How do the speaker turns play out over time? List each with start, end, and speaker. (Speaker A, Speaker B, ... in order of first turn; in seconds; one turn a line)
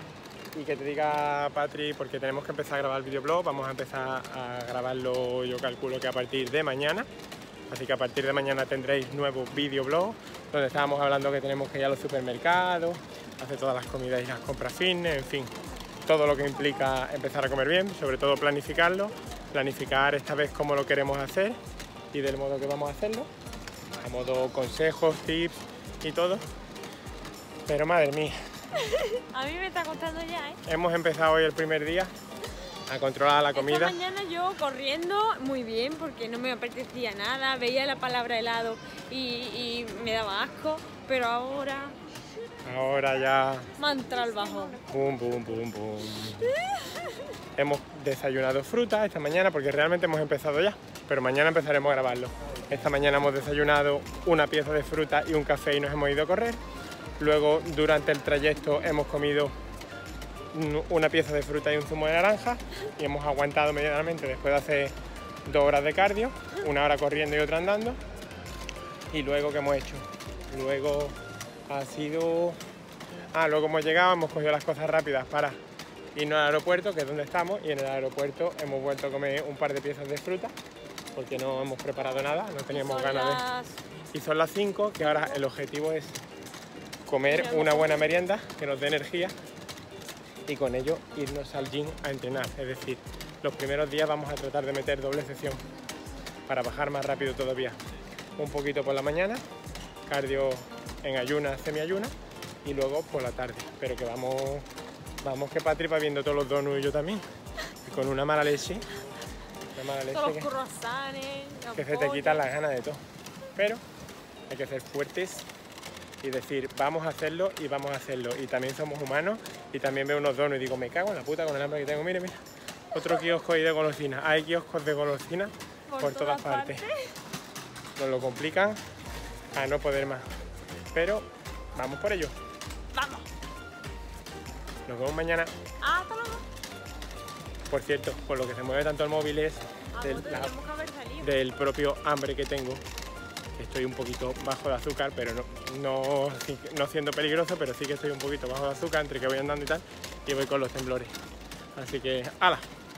Speaker A: 0.5-7.1
Speaker A: 7.7-15.5
Speaker A: 16.1-21.6
Speaker A: 22.1-23.3
Speaker A: 24.0-26.4
Speaker A: 27.6-28.4
Speaker B: 28.7-30.6
Speaker A: 30.6-32.1
Speaker A: 32.9-34.0
Speaker B: 33.5-42.0
Speaker A: 42.6-43.7
Speaker B: 43.8-44.8
Speaker A: 44.8-46.5
Speaker B: 46.8-47.1
Speaker A: 47.5-56.6
Speaker A: 57.2-59.5
Speaker A: 60.5-68.0
Speaker A: 69.1-71.2
Speaker A: 71.7-72.6
Speaker A: 73.3-75.6
Speaker A: 76.1-80.5
Speaker A: 81.1-83.4
Speaker B: 82.2-83.8
Speaker A: 84.1-86.2
Speaker A: 87.1-89.3
Speaker B: 87.3-88.1
Speaker A: 90.5-95.6
Speaker A: 96.5-97.8
Speaker A: 98.4-99.4
Speaker A: 100.0-102.1
Speaker A: 102.6-104.7
Speaker A: 105.2-107.2
Speaker A: 107.8-108.8
Speaker A: 109.7-110.5
Speaker B: 110.1-112.4
Speaker A: 111.7-113.0
Speaker A: 113.5-113.8
Speaker A: 114.5-115.5
Speaker A: 116.2-122.4
Speaker A: 122.9-126.8
Speaker B: 125.9-127.1
Speaker A: 128.0-128.8
Speaker A: 129.5-130.2
Speaker A: 130.9-132.3
Speaker B: 132.9-133.3
Speaker A: 134.8-135.5
Speaker B: 135.8-136.4
Speaker A: 137.7-140.5
Speaker B: 139.9-141.3
Speaker A: 141.2-142.8
Speaker A: 143.6-151.1
Speaker A: 151.7-152.7